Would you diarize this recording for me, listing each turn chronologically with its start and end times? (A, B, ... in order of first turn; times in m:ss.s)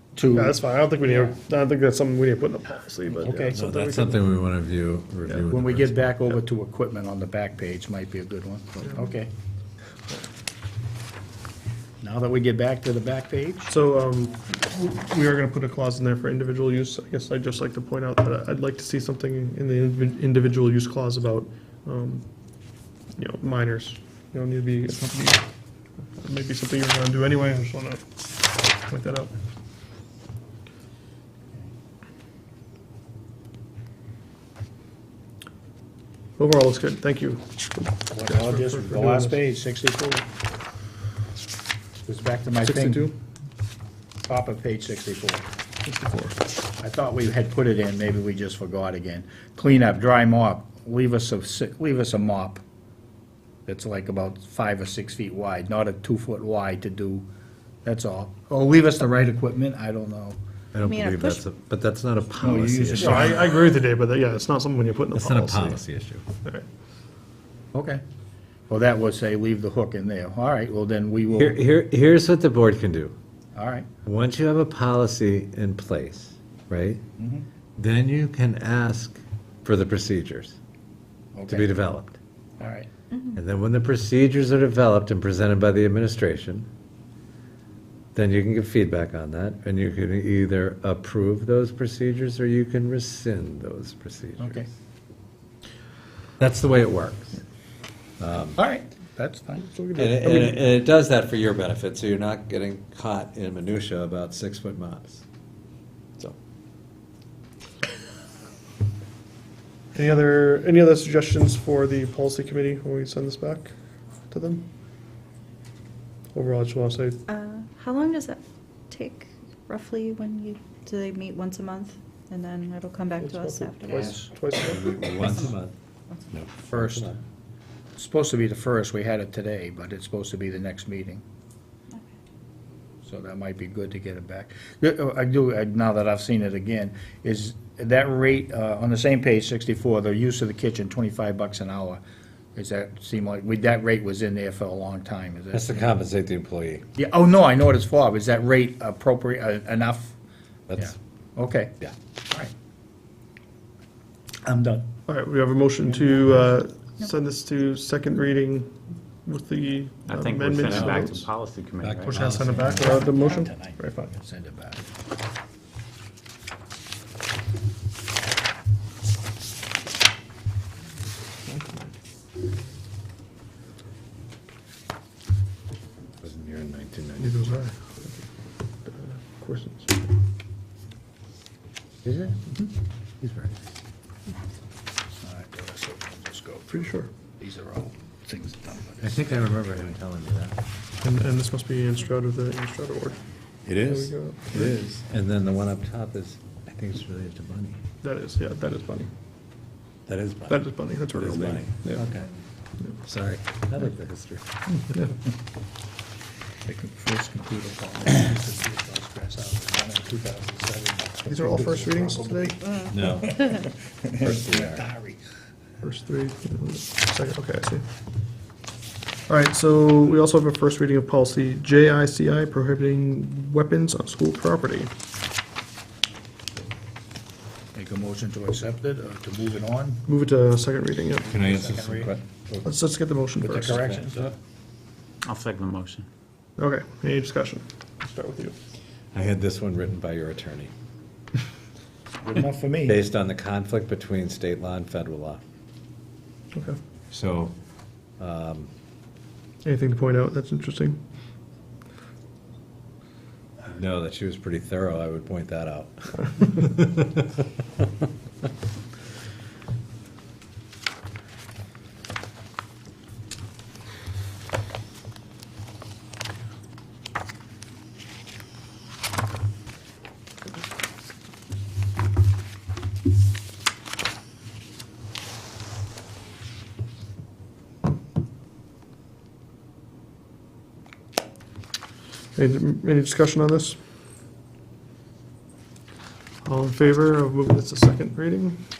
0:00.1-0:01.4 A
0:00.3-0:04.2 B
0:03.1-0:03.6 A
0:03.5-0:06.0 C
0:05.5-0:09.3 A
0:12.0-0:13.7 A
0:13.7-0:22.3 B
0:23.2-0:25.4 B
0:26.2-0:28.0 B
0:28.9-0:29.3 B
0:36.4-0:39.4 B
0:38.1-0:40.3 A
0:42.0-0:43.1 A
0:42.6-0:43.1 B
0:44.2-0:45.4 A
0:45.8-0:46.4 B
0:46.8-0:52.6 A
0:53.6-0:57.2 A
0:57.8-1:00.4 A
1:00.7-1:03.3 C
1:00.8-1:01.4 D
1:02.4-1:03.4 A
1:03.0-1:05.8 B
1:05.1-1:06.2 C
1:07.7-1:08.0 A
1:08.7-1:11.6 A
1:11.4-1:13.1 C
1:13.5-1:13.9 A
1:14.0-1:17.0 C
1:17.2-1:17.4 A
1:17.8-1:20.6 C
1:21.3-1:21.7 A
1:21.5-1:22.2 C
1:22.6-1:22.9 A
1:23.3-1:26.7 C
1:28.1-1:34.6 C
1:34.4-1:34.7 A
1:36.4-1:37.4 C
1:38.2-1:38.6 C
1:38.5-1:39.7 A
1:39.6-1:40.5 B
1:40.0-1:45.2 C
1:49.9-1:53.7 B
1:54.3-1:54.6 B
1:56.3-1:57.2 B
1:57.3-2:04.1 D
2:03.2-2:05.4 B
2:03.9-2:04.3 A
2:04.6-2:05.7 C
2:06.3-2:07.2 C
2:06.7-2:07.1 A
2:08.0-2:11.2 A
2:13.0-2:22.0 A
2:22.5-2:26.0 A
2:25.5-2:26.8 C
2:26.9-2:30.1 A
2:30.7-2:30.9 C
2:30.8-2:31.7 A
2:34.4-2:34.9 A
2:35.1-2:41.2 B
2:35.8-2:36.4 A
2:40.1-2:42.2 E
2:41.8-2:43.1 C
2:42.1-2:44.1 B
2:42.7-2:44.8 A
2:51.4-2:51.9 B
2:56.2-2:57.5 C
2:57.2-2:58.2 B
2:58.8-3:00.1 B
3:02.0-3:02.5 C
3:03.2-3:03.5 C
3:05.2-3:09.5 A
3:06.7-3:07.1 B
3:09.0-3:10.6 C
3:11.0-3:13.2 B
3:13.6-3:17.8 C
3:13.7-3:14.7 B
3:18.0-3:19.1 B
3:20.1-3:22.4 C
3:20.5-3:22.0 B
3:23.0-3:24.4 C
3:26.6-3:35.2 A
3:31.3-3:32.6 B
3:32.9-3:33.6 C
3:34.2-3:34.8 C
3:35.8-3:37.8 B
3:39.3-3:44.9 B
3:47.7-3:50.0 A
3:50.1-3:51.3 B
3:51.3-3:52.7 C
3:51.3-3:52.1 A
3:52.6-3:53.8 B
3:53.4-3:54.3 A
3:53.8-3:54.1 C
3:55.2-3:56.1 E
3:56.6-3:58.5 B
3:59.1-4:00.7 C
4:02.2-4:03.0 A
4:02.9-4:05.4 C
4:07.1-4:07.5 C
4:08.2-4:08.7 C
4:09.6-4:11.0 B
4:13.7-4:17.2 C
4:42.3-4:43.8 B
4:46.4-4:48.6 B